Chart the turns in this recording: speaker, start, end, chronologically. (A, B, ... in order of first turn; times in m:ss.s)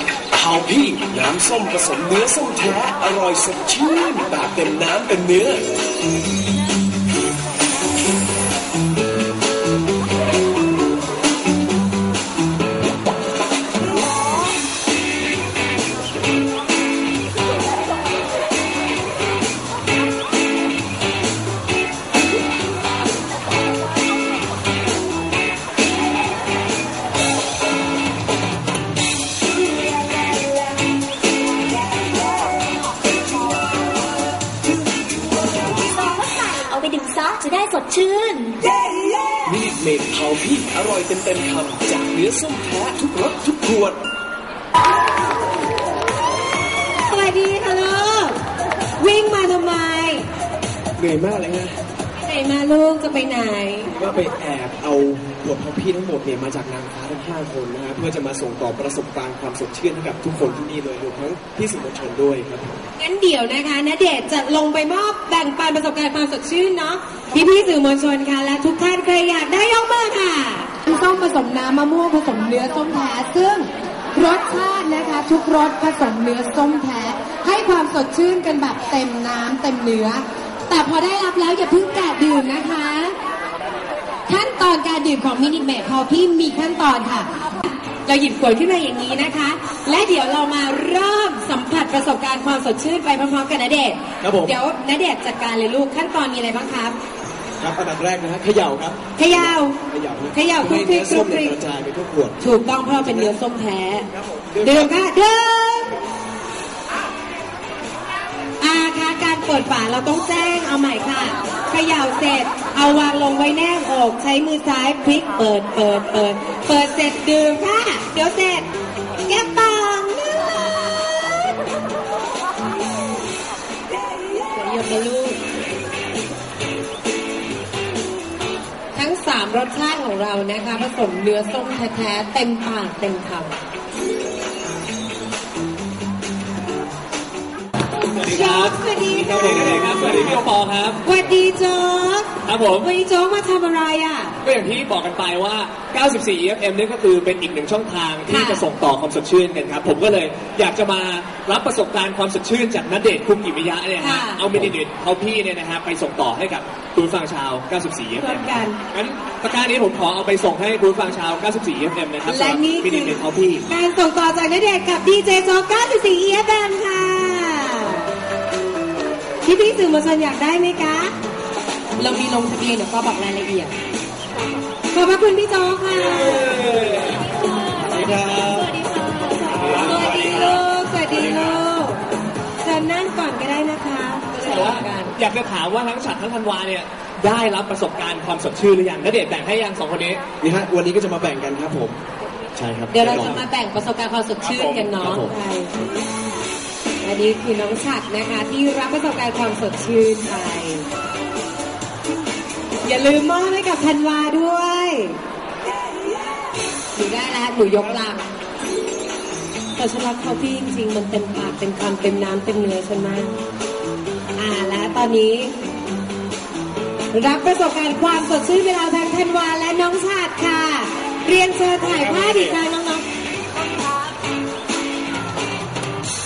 0:00.3-0:05.6 A
0:35.8-0:38.6 B
0:39.5-0:44.0 A
0:47.1-0:48.4 C
0:49.0-0:50.2 C
0:51.0-0:51.8 D
0:52.2-0:53.9 C
0:54.0-1:02.8 D
1:03.0-1:23.1 C
1:24.3-1:27.3 C
1:28.0-1:37.0 C
1:34.2-1:34.6 D
1:37.6-1:42.4 D
1:39.2-1:39.8 C
1:40.3-1:41.6 C
1:42.4-1:44.1 C
1:43.0-1:43.4 D
1:44.1-1:45.0 D
1:44.6-1:46.0 C
1:48.6-1:58.7 C
1:59.3-2:00.4 C
2:04.5-2:05.4 C
2:08.9-2:13.5 C
2:18.1-2:21.0 E
2:18.2-2:20.4 C
2:21.0-2:24.4 C
2:22.4-2:22.9 E
2:24.4-2:43.6 E
2:28.3-2:28.7 C
2:34.0-2:34.4 C
2:38.2-2:38.8 C
2:42.3-2:48.1 C
2:49.4-2:51.1 C
2:52.0-2:53.7 C
2:54.9-2:56.7 C
2:56.1-2:57.3 E
2:57.8-2:58.8 D
2:59.5-3:00.4 E
2:59.6-3:02.0 C
3:02.6-3:05.1 C
3:04.4-3:10.2 E
3:10.4-3:12.0 D
3:12.6-3:13.4 D
3:12.9-3:15.7 C
3:13.0-3:13.4 E
3:14.5-3:14.9 E
3:15.0-3:15.3 D
3:17.0-3:20.9 C
3:22.8-3:25.2 C
3:27.0-3:28.3 C
3:29.8-3:33.3 C
3:34.4-3:35.6 C
3:37.1-3:43.0 C